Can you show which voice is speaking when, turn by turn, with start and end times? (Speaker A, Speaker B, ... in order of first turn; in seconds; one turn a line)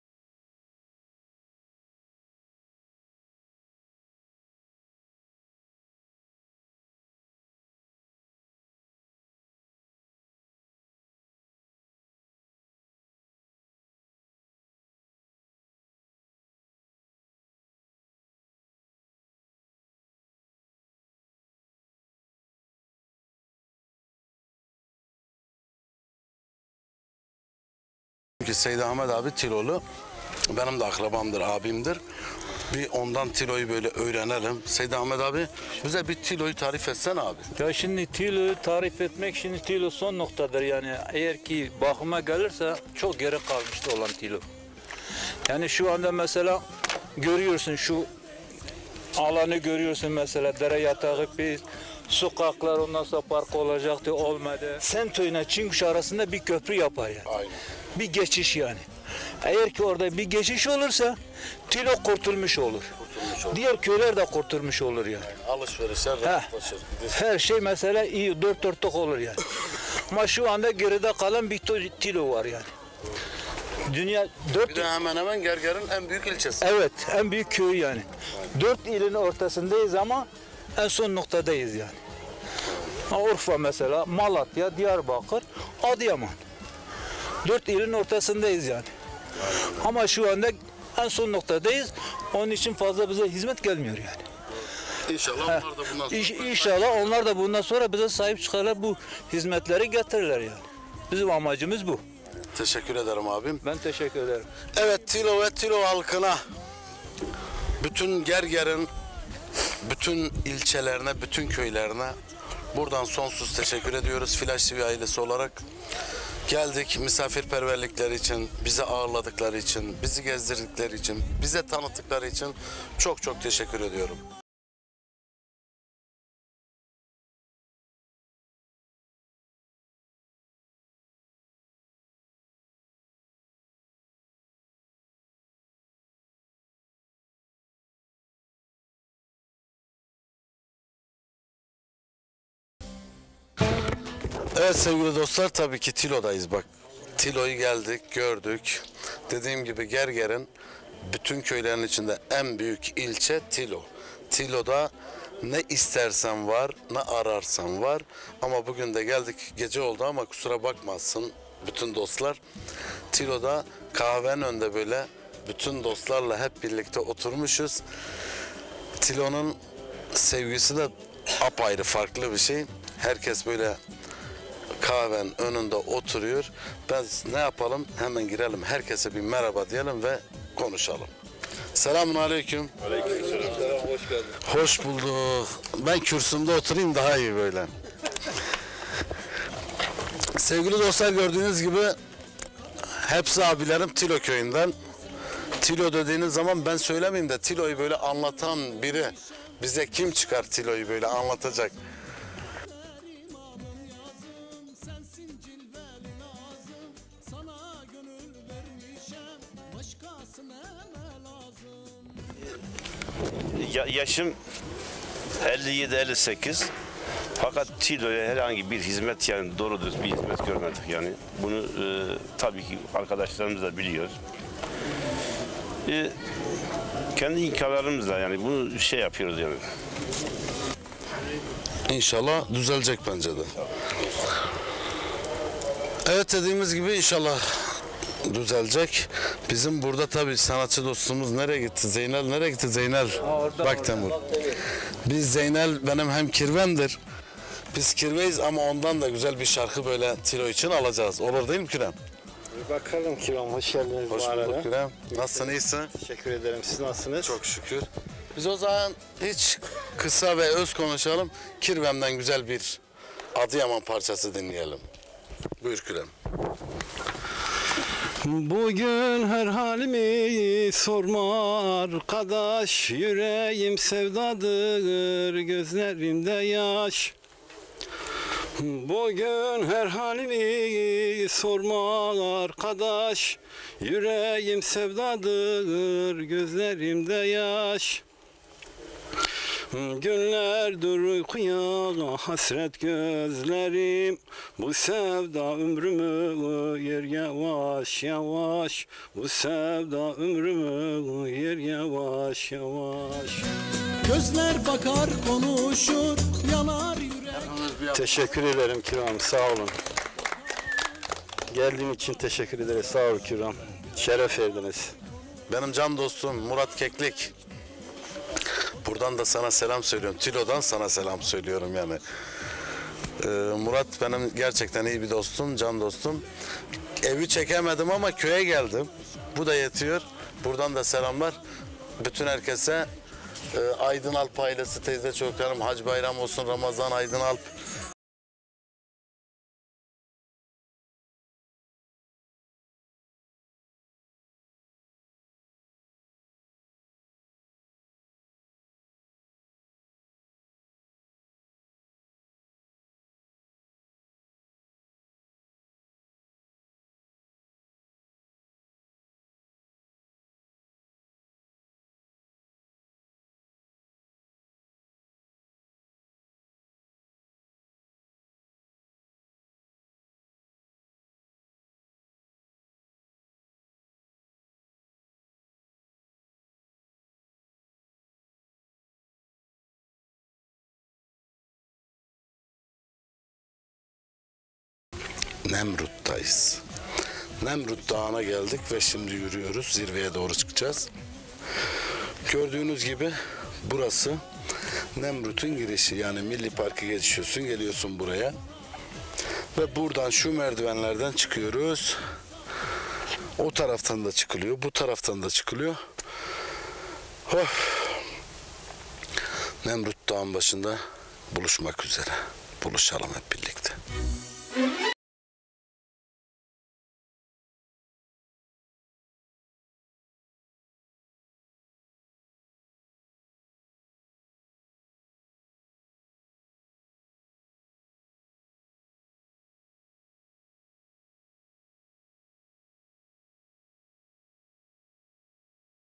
Speaker A: 28.4-29.8
Speaker A: 30.5-32.0
Speaker A: 32.7-37.5
Speaker B: 37.6-44.5
Speaker B: 45.5-46.6
Speaker B: 47.2-48.1
Speaker B: 49.1-57.3
Speaker A: 57.2-57.6
Speaker B: 58.0-58.9
Speaker B: 59.4-62.9
Speaker A: 63.0-63.7
Speaker B: 63.5-65.3
Speaker A: 65.2-67.2
Speaker B: 67.1-69.4
Speaker B: 70.1-72.7
Speaker B: 73.9-74.9
Speaker A: 74.6-76.7
Speaker B: 76.6-82.0
Speaker B: 83.1-86.4
Speaker B: 87.4-88.9
Speaker B: 89.8-94.2
Speaker A: 95.1-97.1
Speaker B: 95.5-102.0
Speaker A: 102.5-103.6
Speaker B: 103.6-104.5
Speaker A: 104.8-106.4
Speaker A: 107.8-108.9
Speaker A: 109.8-112.2
Speaker A: 112.7-115.6
Speaker A: 116.5-124.2
Speaker A: 144.5-150.5
Speaker A: 151.1-162.4
Speaker A: 163.1-167.8
Speaker A: 169.0-169.6
Speaker A: 170.1-173.8
Speaker A: 174.8-181.1
Speaker A: 181.7-182.7
Speaker A: 184.4-187.7
Speaker A: 190.4-192.0
Speaker A: 193.0-194.7
Speaker A: 195.6-201.8
Speaker C: 203.0-211.9
Speaker D: 213.5-214.4
Speaker D: 215.4-216.7
Speaker D: 217.4-224.2
Speaker D: 225.8-226.2
Speaker D: 227.2-229.7
Speaker A: 231.9-233.5
Speaker A: 236.1-237.7
Speaker A: 238.2-244.2
Speaker B: 243.2-244.1
Speaker A: 245.1-247.0
Speaker A: 247.7-252.0
Speaker E: 252.6-255.4
Speaker A: 254.1-255.9
Speaker E: 256.0-257.4
Speaker A: 257.2-262.8
Speaker A: 263.4-264.8
Speaker A: 265.6-266.1
Speaker E: 268.2-277.1
Speaker E: 278.6-288.0
Speaker E: 289.7-303.4
Speaker C: 304.0-307.6
Speaker A: 307.4-308.2
Speaker E: 307.9-309.8
Speaker E: 311.5-314.9
Speaker A: 315.5-317.3
Speaker A: 318.8-322.0
Speaker A: 323.2-326.2
Speaker A: 327.0-331.4
Speaker A: 332.0-332.9
Speaker A: 333.5-337.5
Speaker A: 385.4-386.6
Speaker A: 387.4-390.9
Speaker A: 392.3-394.2
Speaker A: 394.9-398.4
Speaker A: 399.6-402.0
Speaker A: 403.4-405.8
Speaker A: 407.3-408.0
Speaker A: 409.6-410.8
Speaker A: 411.3-413.8